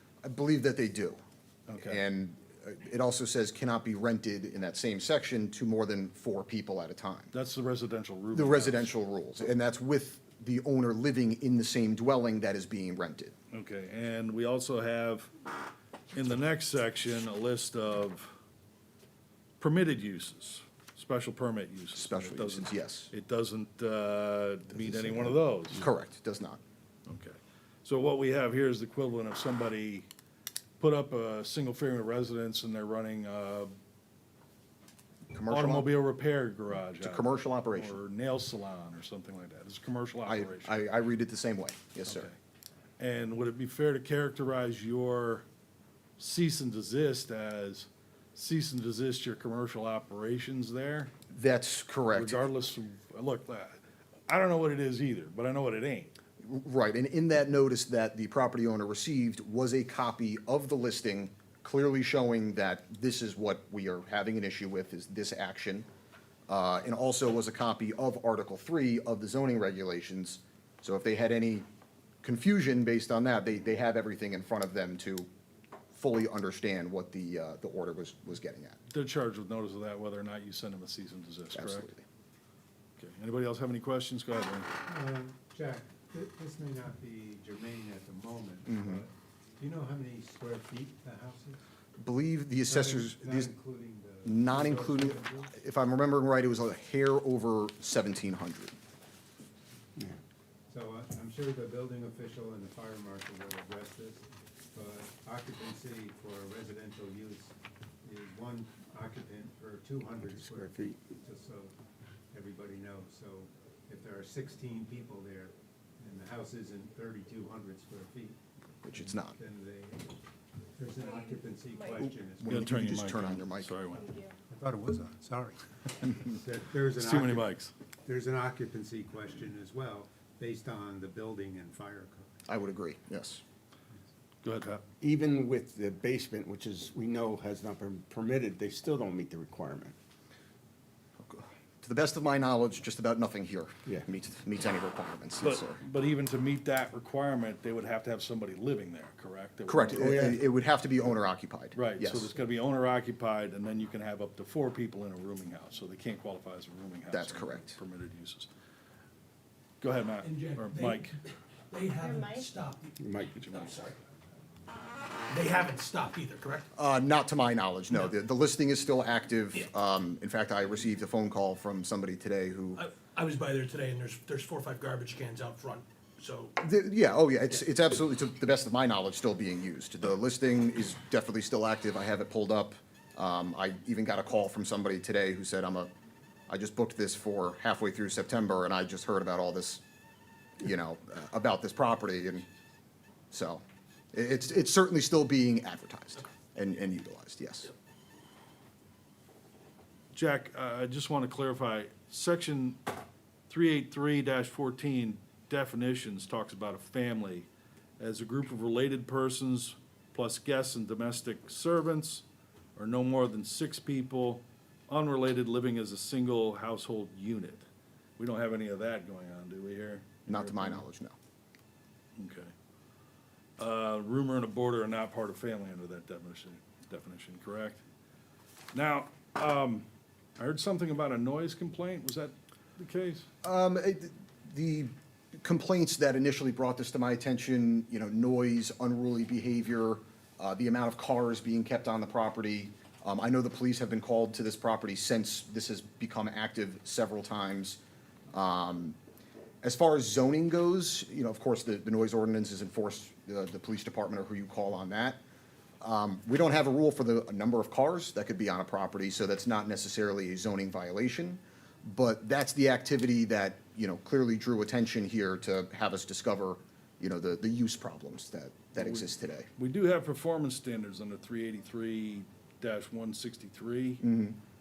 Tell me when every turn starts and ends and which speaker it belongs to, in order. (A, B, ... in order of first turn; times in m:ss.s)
0:00.2-0:01.2 A
0:01.7-0:02.0 B
0:01.8-0:07.3 A
0:07.3-0:08.9 B
0:08.3-0:13.3 A
0:13.5-0:15.3 B
0:16.1-0:18.3 B
0:19.6-0:25.9 B
0:21.9-0:23.1 A
0:25.8-0:26.6 A
0:27.0-0:30.1 B
0:30.8-0:33.7 B
0:35.3-0:35.9 A
0:35.5-0:40.8 B
0:37.0-0:38.0 A
0:40.2-0:42.3 A
0:42.0-0:42.4 B
0:43.0-0:45.4 B
0:46.2-0:51.1 B
0:51.3-0:52.4 A
0:52.1-0:53.8 B
0:54.3-0:56.1 B
0:56.4-1:05.9 A
1:06.5-1:11.6 A
1:12.2-1:15.3 A
1:15.9-1:18.8 A
1:18.9-1:21.9 B
1:21.5-1:22.0 A
1:23.0-1:24.7 B
1:24.8-1:31.6 C
1:28.7-1:29.0 A
1:32.0-1:33.5 A
1:32.6-1:35.5 C
1:34.2-1:38.7 A
1:40.7-1:51.7 C
1:50.2-1:51.0 D
1:52.3-1:58.4 C
1:58.8-1:59.3 A
1:58.9-2:00.2 C
2:00.8-2:02.6 C
2:02.4-2:03.7 A
2:02.5-2:04.2 B
2:04.0-2:04.3 E
2:04.5-2:07.5 C
2:06.9-2:07.7 B
2:08.0-2:12.3 C
2:12.5-2:13.4 A
2:14.4-2:14.8 B
2:15.0-2:19.9 D
2:21.2-2:25.8 A
2:25.4-2:30.3 B
2:29.7-2:32.3 A
2:29.9-2:30.4 D
2:31.8-2:38.5 B
2:37.1-2:37.8 A
2:39.8-2:41.1 B
2:40.2-2:41.1 E
2:41.7-2:44.0 E
2:43.0-2:43.6 D
2:45.3-2:46.7 E
2:46.7-2:52.8 A
2:52.8-2:56.6 E
2:56.6-3:05.9 A
3:06.5-3:09.8 A
3:10.6-3:12.4 A
3:13.3-3:13.6 A
3:14.1-3:17.7 A
3:20.1-3:22.8 B
3:23.5-3:27.5 B
3:28.0-3:32.2 B
3:32.8-3:37.6 B
3:38.2-3:40.8 B
3:40.3-3:41.1 A
3:42.2-3:42.5 B
3:43.6-3:47.8 B
3:48.7-3:49.8 B
3:50.4-3:53.3 B
3:53.4-4:07.8 A
4:08.3-4:09.0 A
4:09.6-4:15.2 A
4:15.8-4:29.5 A
4:28.7-4:34.0 B
4:34.0-4:34.4 A